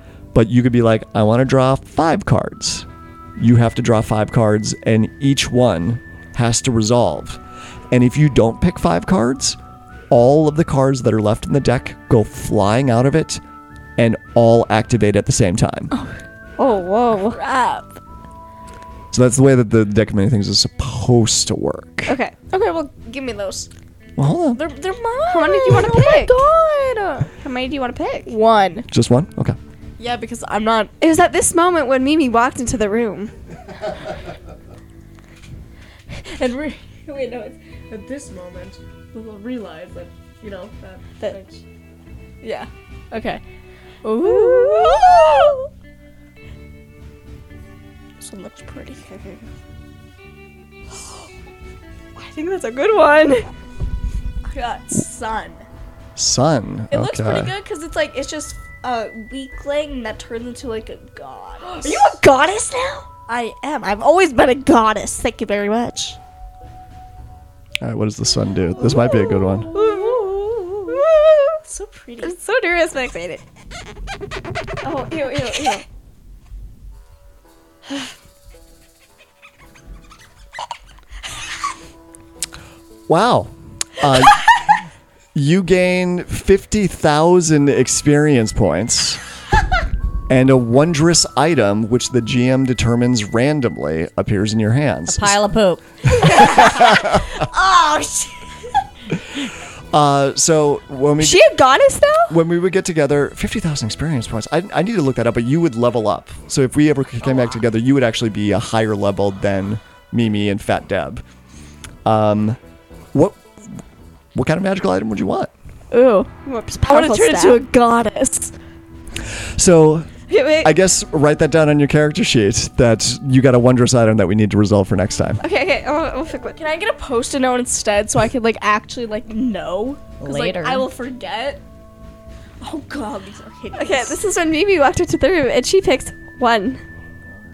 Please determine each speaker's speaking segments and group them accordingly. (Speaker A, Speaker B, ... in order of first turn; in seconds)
Speaker A: 0.3-7.4, 7.9-9.6, 10.1-13.4, 14.0-15.9, 19.1-22.2, 24.2-24.6, 28.9-29.6, 56.1-57.5, 67.8-69.7, 83.1-84.5, 85.3-89.2, 90.3-95.4, 96.2-97.2, 99.9-101.4, 102.3-111.2, 112.0-112.6, 113.1-113.4, 114.3-115.5, 119.5-120.1, 120.6-125.4
Speaker B: 16.6-17.4, 22.1-22.3, 25.3-26.4, 27.4-28.3, 31.0-33.3, 44.2-45.7, 52.2-53.4, 61.7-62.3, 69.0-71.6, 72.2-73.4, 74.8-75.8, 101.2-102.4, 116.4-117.6, 120.3-120.7, 125.4-126.6, 133.8-136.8
Speaker C: 17.2-18.0, 22.5-23.7, 24.5-27.3, 28.3-28.9, 30.0-30.9, 36.2-41.6, 42.4-43.4, 44.0-45.6, 48.2-49.5, 54.5-55.6, 56.9-66.2, 69.7-71.0, 71.6-72.3, 96.2-98.4, 115.9-116.3, 116.9-118.5, 126.5-131.6, 132.6-134.2
Speaker D: 95.1-96.4, 130.2-130.9